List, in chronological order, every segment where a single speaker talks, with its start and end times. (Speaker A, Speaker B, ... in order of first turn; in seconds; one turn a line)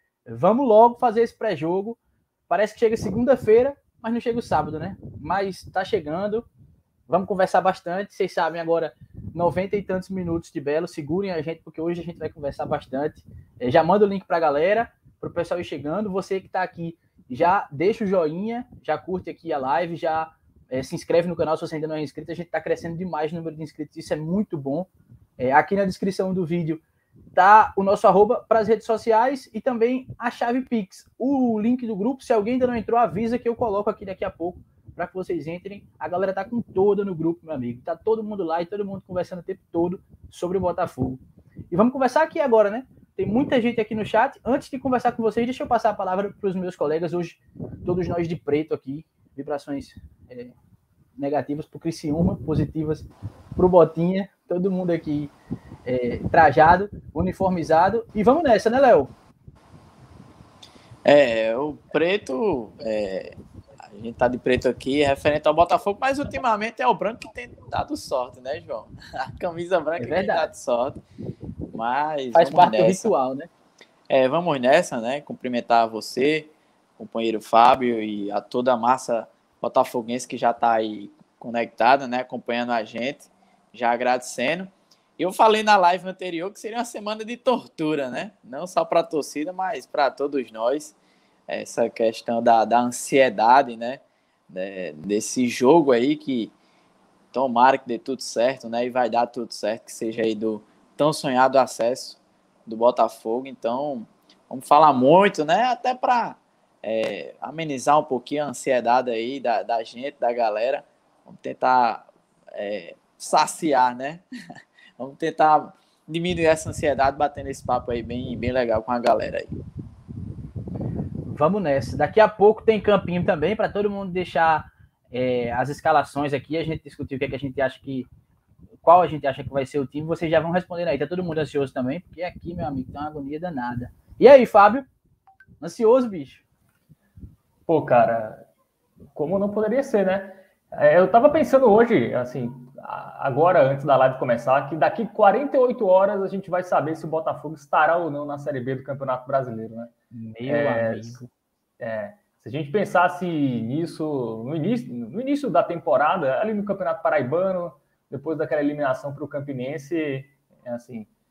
Speaker A: 0.2-2.0
Speaker A: 2.5-6.5
Speaker A: 7.1-26.8
Speaker A: 27.3-50.5
Speaker A: 51.2-55.3
Speaker A: 55.8-59.1
Speaker B: 61.0-71.0
Speaker A: 70.0-70.5
Speaker B: 71.7-73.1
Speaker A: 72.3-73.5
Speaker B: 74.1-91.0
Speaker B: 91.5-96.5
Speaker B: 97.3-114.2
Speaker B: 115.0-119.5
Speaker A: 121.3-128.1
Speaker A: 128.8-134.8
Speaker A: 135.6-136.4
Speaker C: 137.7-138.4
Speaker C: 139.1-149.9
Speaker A: 150.1-151.3
Speaker C: 150.4-151.2
Speaker C: 151.8-161.1